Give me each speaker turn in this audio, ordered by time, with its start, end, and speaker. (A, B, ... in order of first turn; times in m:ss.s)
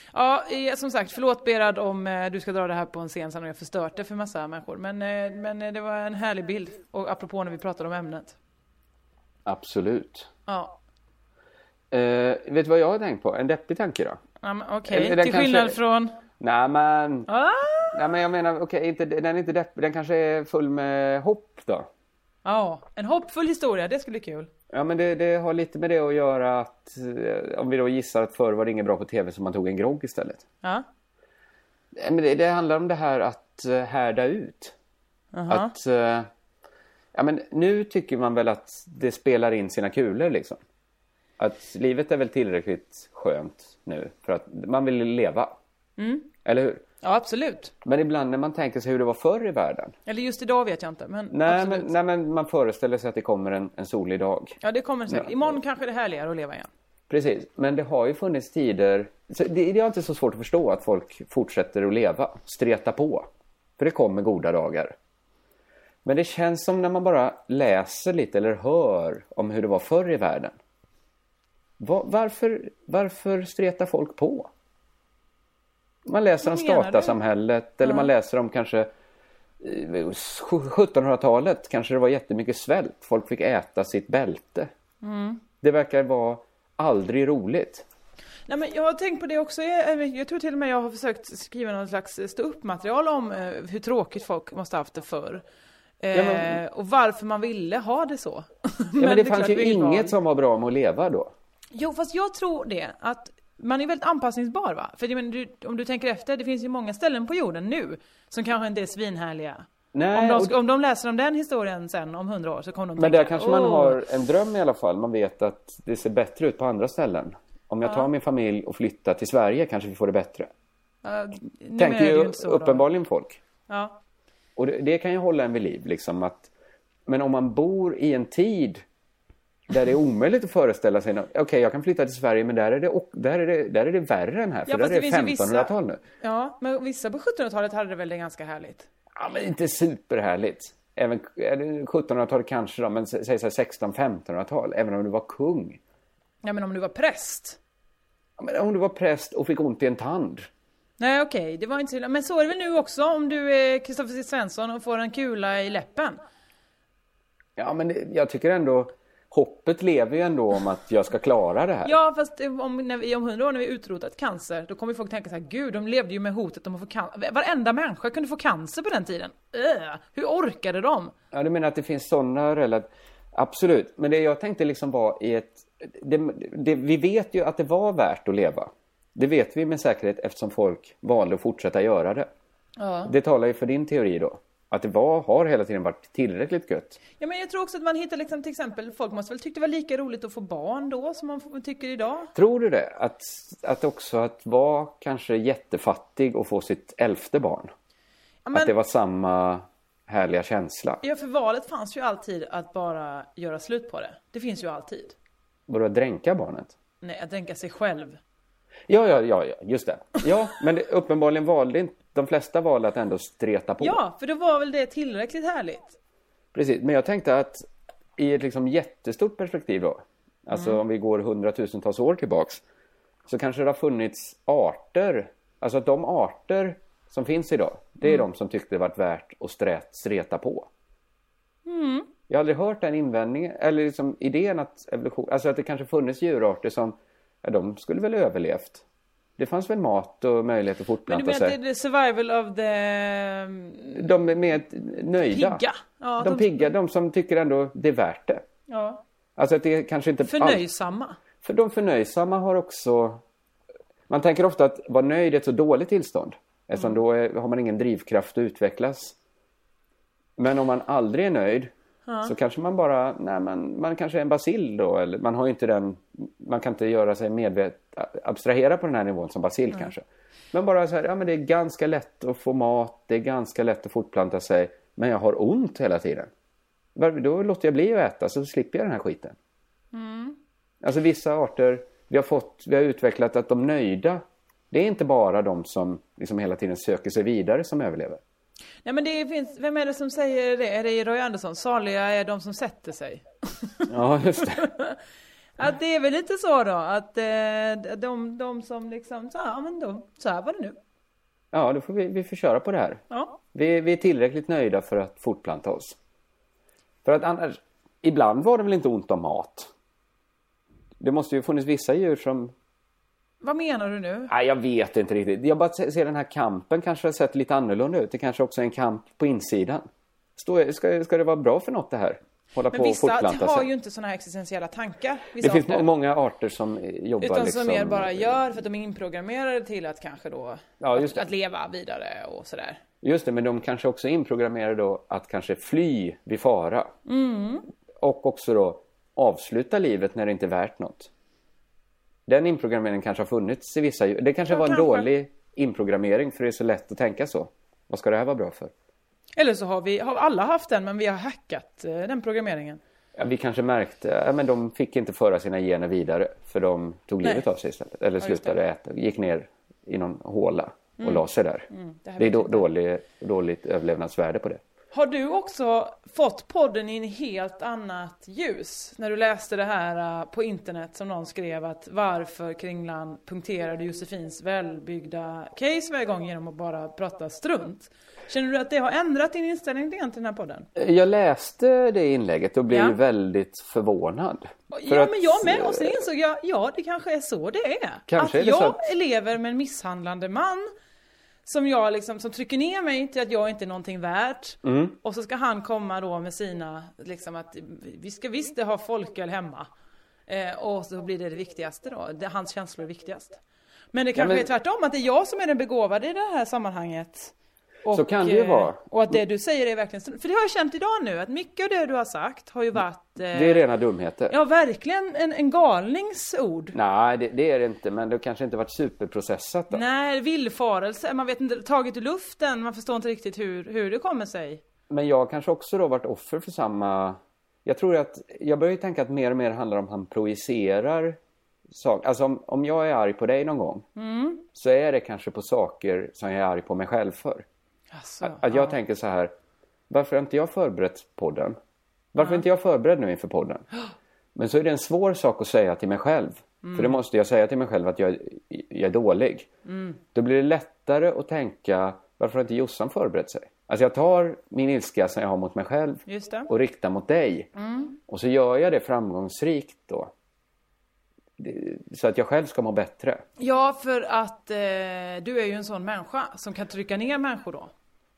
0:00.1-0:08.4 A
0:09.4-0:10.3 B
0:10.5-0:10.8 A
0:11.9-0:14.2 B
0:14.4-0:16.2 A
0:14.9-0:15.8 B
0:16.4-0:17.3 B
0:17.3-0:18.0 A
0:17.9-0:21.9 B
0:22.4-0:24.5 A
0:24.7-0:30.4 B
0:31.9-0:34.7 B
0:35.3-0:35.7 A
0:35.5-0:36.3 B
0:37.1-0:40.6 B
0:41.4-0:45.5 B
0:46.0-0:46.3 A
0:46.4-0:46.8 B
0:47.0-0:47.7 A
0:47.8-0:49.9 B
0:50.1-0:51.9 A
0:51.3-0:55.6 B
0:54.6-0:56.7 A
0:57.1-1:04.9 B
1:06.0-1:10.5 B
1:11.8-1:14.5 B
1:16.0-1:18.9 B
1:16.4-1:17.2 A
1:17.8-1:18.1 A
1:19.6-1:24.7 B
1:25.0-1:25.4 A
1:25.6-1:27.8 B
1:28.5-1:35.4 A
1:36.0-1:40.1 A
1:36.1-1:36.6 B
1:39.0-1:41.3 B
1:41.7-1:54.0 A
1:49.9-1:50.6 B
1:53.0-2:00.5 B
1:57.8-1:58.1 A
2:01.0-2:02.9 A
2:01.8-2:03.4 B
2:03.7-2:04.0 A
2:04.6-2:06.5 B
2:07.1-2:08.8 B
2:09.7-2:16.0 B
2:14.7-2:18.9 A
2:19.2-2:25.8 B
2:26.4-2:27.6 A
2:28.4-2:30.5 B
2:31.0-2:36.2 A
2:37.6-2:42.0 B
2:41.8-2:51.1 A
2:51.3-3:02.3 B
3:02.8-3:03.1 A
3:03.0-3:07.0 B
3:07.2-3:12.3 A
3:12.3-3:17.7 B
3:18.4-3:18.7 A
3:18.5-3:21.0 B
3:21.0-3:25.1 A
3:25.7-3:26.7 B
3:27.0-3:28.2 A
3:28.9-3:34.0 B
3:33.8-3:36.0 A
3:36.5-3:37.6 B
3:38.2-3:42.6 B
3:40.5-3:40.8 A
3:43.3-3:50.7 B
3:51.6-3:52.1 A
3:52.3-3:58.8 B
3:59.4-4:01.6 B
4:01.1-4:04.0 A
4:03.9-4:05.6 B
4:05.2-4:06.7 A
4:06.2-4:08.4 B
4:08.7-4:09.0 A
4:09.4-4:10.6 B
4:10.2-4:11.2 A
4:11.4-4:13.2 B
4:14.1-4:19.1 B
4:20.4-4:21.7 B
4:22.1-4:22.3 A
4:22.2-4:36.3 B
4:37.0-4:39.4 B
4:39.9-4:40.4 A
4:40.8-4:48.2 B
4:48.8-4:53.9 A
4:53.9-4:54.6 B
4:54.4-4:55.0 A
4:55.6-5:00.8 A
5:01.5-5:03.0 B
5:03.1-5:03.4 A
5:03.5-5:06.0 B
5:07.0-5:09.7 B
5:11.0-5:12.5 B
5:13.4-5:14.3 A
5:14.3-5:23.7 B
5:22.7-5:25.9 A
5:25.4-5:28.5 B
5:27.2-5:32.8 A
5:30.8-5:31.3 B
5:33.0-5:36.9 B
5:37.1-5:37.7 A
5:38.0-5:41.1 B
5:42.3-5:48.7 B
5:44.5-5:45.1 A
5:49.4-5:52.8 A
5:53.2-6:04.6 B
5:58.2-5:58.5 A
6:01.0-6:02.7 A
6:04.9-6:20.7 A
6:20.8-6:26.0 B
6:22.7-6:23.0 A
6:24.7-6:30.7 A
6:28.1-6:28.8 B
6:31.4-6:39.7 A
6:34.6-6:35.0 B
6:40.3-6:43.4 A
6:43.9-6:47.3 A
6:44.1-6:44.5 B
6:47.8-6:53.6 A
6:47.9-6:49.2 B
6:53.3-6:54.3 B
6:54.3-6:56.8 A
6:56.7-6:59.8 B
6:59.7-7:04.6 A
7:04.9-7:11.2 B
7:11.7-7:13.8 B
7:14.0-7:14.4 A
7:14.5-7:17.4 B
7:17.9-7:18.8 A
7:18.2-7:19.3 B
7:19.9-7:21.6 B
7:22.1-7:23.6 B
7:24.3-7:29.5 B
7:26.6-7:27.0 A
7:29.6-7:30.0 A
7:30.1-7:37.5 B
7:36.1-7:36.5 A
7:37.6-7:38.0 A
7:38.1-7:40.1 B
7:41.4-7:43.2 B
7:43.4-7:47.7 A